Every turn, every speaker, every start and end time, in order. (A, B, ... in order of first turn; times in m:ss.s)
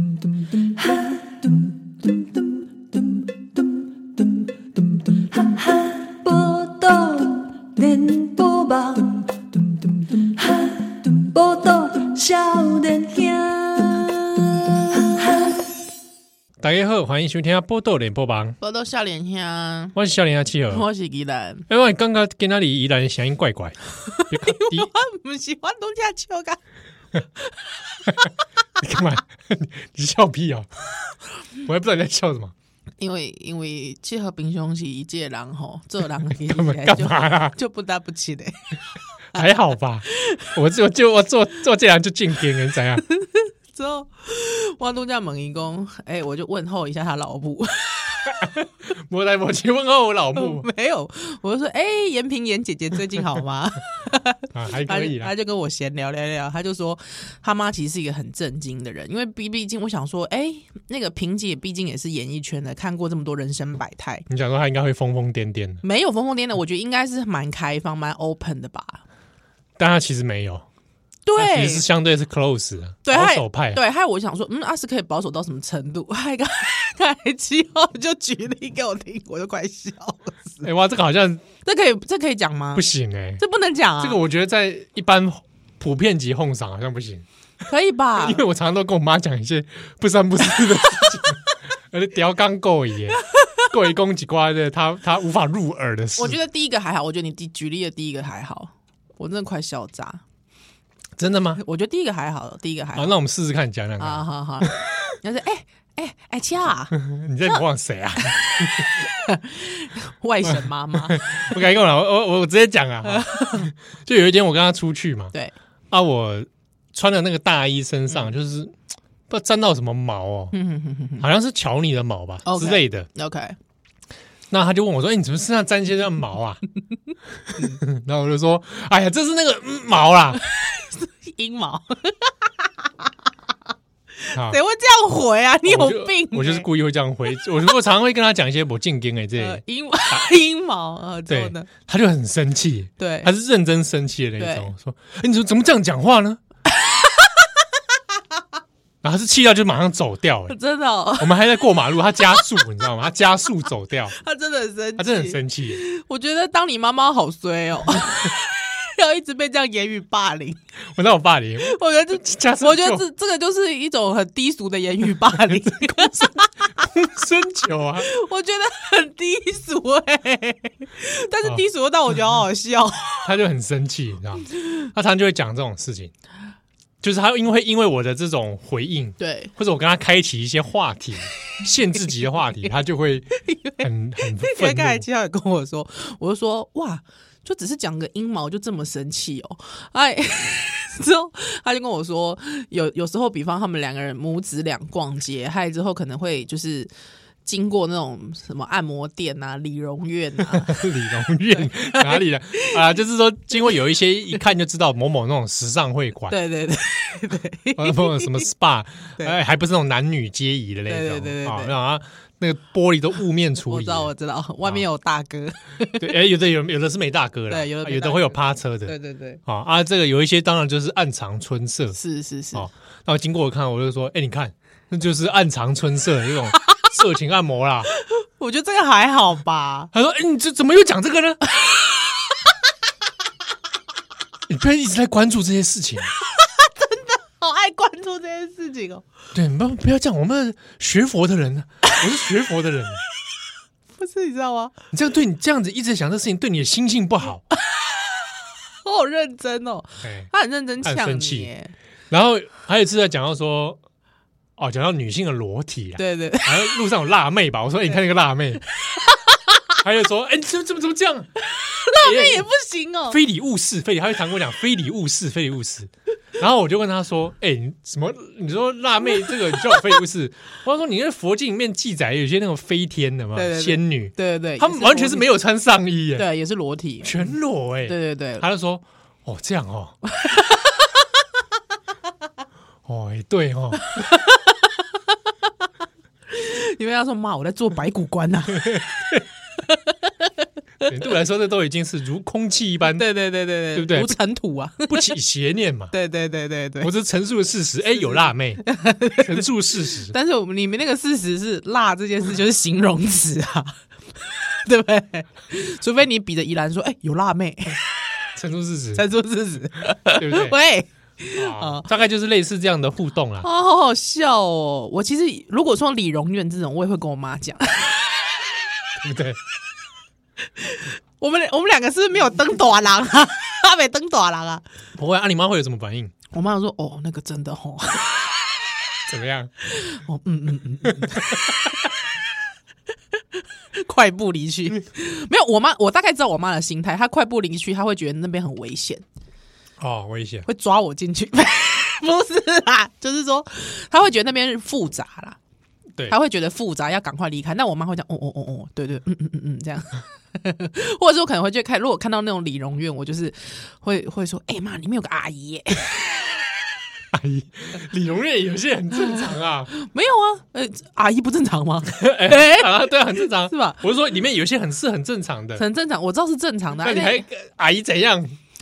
0:00.2-0:15.6 A
0:16.6-0:18.6 B
0:18.6-0:20.0 C
0:20.0-0:20.9 B
0:20.7-0:21.7 C
0:21.7-0:23.8 B
0:24.1-0:26.6 C
0:24.3-0:24.9 B
0:27.4-0:28.3 C
0:28.8-0:30.7 B
0:31.6-0:32.5 B
0:33.0-0:38.8 C
0:36.4-0:37.6 B
0:39.4-0:43.0 B
0:43.1-0:48.6 C
0:48.4-0:50.7 B
0:50.4-1:04.3 C
0:54.5-0:55.3 B
1:04.3-1:05.8 B
1:05.8-1:09.0 C
1:09.8-1:10.6 B
1:11.3-1:11.9 C
1:11.4-1:13.8 B
1:13.0-1:20.6 C
1:20.6-1:21.4 B
1:21.6-1:22.9 C
1:22.7-1:23.4 B
1:23.4-1:24.2 C
1:24.0-1:27.3 B
1:27.6-1:28.4 C
1:28.2-1:31.4 B
1:31.9-1:36.4 B
1:33.3-1:33.6 C
1:36.2-1:40.2 C
1:41.2-1:41.6 B
1:41.6-1:43.2 C
1:43.0-1:44.7 B
1:44.0-1:47.6 C
1:47.0-1:48.9 B
1:48.2-1:51.6 C
1:50.5-1:55.3 B
1:53.0-1:53.7 C
1:55.9-1:58.8 B
1:59.3-2:00.6 B
2:00.5-2:01.3 C
2:01.2-2:03.1 B
2:02.4-2:03.6 C
2:04.5-2:06.6 B
2:07.5-2:10.4 B
2:10.4-2:12.7 C
2:14.2-2:16.7 C
2:14.3-2:14.6 B
2:15.6-2:20.3 B
2:19.4-2:21.7 C
2:21.3-2:26.4 B
2:23.0-2:23.3 C
2:24.4-2:24.7 C
2:26.7-2:27.5 C
2:29.0-2:30.6 B
2:30.5-2:31.3 C
2:31.2-2:34.2 B
2:34.2-2:40.6 C
2:35.0-2:35.8 B
2:41.0-2:43.0 B
2:41.6-2:46.9 C
2:45.5-2:48.1 B
2:48.0-2:53.3 C
2:53.2-2:56.1 B
2:57.0-3:05.1 B
2:59.2-2:59.5 C
3:03.4-3:16.9 C
3:17.4-3:20.8 C
3:20.4-3:26.4 B
3:21.5-3:22.8 C
3:26.3-3:28.5 C
3:27.8-3:34.1 B
3:30.9-3:31.8 C
3:33.7-3:36.1 C
3:36.0-3:39.0 B
3:37.5-3:39.4 C
3:39.5-3:42.0 B
3:42.0-3:42.7 C
3:42.5-3:47.9 B
3:48.0-3:49.9 C
3:49.9-3:51.4 B
3:54.5-3:56.1 B
3:56.2-3:59.0 C
3:59.3-4:03.0 B
4:04.0-4:04.8 C
4:04.9-4:07.4 B
4:07.5-4:11.7 C
4:10.0-4:10.3 B
4:10.8-4:11.5 B
4:12.1-4:13.8 B
4:14.6-4:18.6 B
4:16.0-4:16.8 C
4:19.0-4:19.8 C
4:19.8-4:21.3 B
4:21.4-4:23.2 C
4:22.0-4:22.5 B
4:23.1-4:36.3 B
4:33.4-4:35.3 C
4:36.2-4:37.3 C
4:37.0-4:40.0 B
4:37.9-4:38.5 C
4:40.2-4:41.1 C
4:42.9-4:43.9 B
4:43.8-4:45.2 C
4:46.3-4:48.9 C
4:48.6-4:49.2 B
4:49.7-4:50.3 C
4:50.9-4:53.0 B
4:52.9-4:55.0 C
4:53.7-4:54.2 B
4:54.9-4:55.9 B
4:55.9-4:56.9 C
4:56.8-4:58.7 B
4:58.7-4:59.4 C
4:59.2-5:00.2 B
5:00.1-5:07.9 C
5:08.4-5:09.0 B
5:09.0-5:11.9 C
5:10.2-5:10.6 B
5:11.4-5:13.5 B
5:13.4-5:18.5 C
5:19.0-5:19.4 B
5:20.6-5:24.6 C
5:25.0-5:26.1 B
5:26.3-5:28.7 C
5:29.1-5:29.5 B
5:29.7-5:32.0 C
5:30.9-5:31.4 B
5:33.7-5:39.0 C
5:39.8-5:40.5 B
5:40.5-5:45.4 C
5:46.1-5:56.4 C
5:57.1-5:59.7 B
5:59.0-6:03.8 C
6:01.9-6:05.6 B
6:05.6-6:07.2 C
6:06.8-6:08.4 B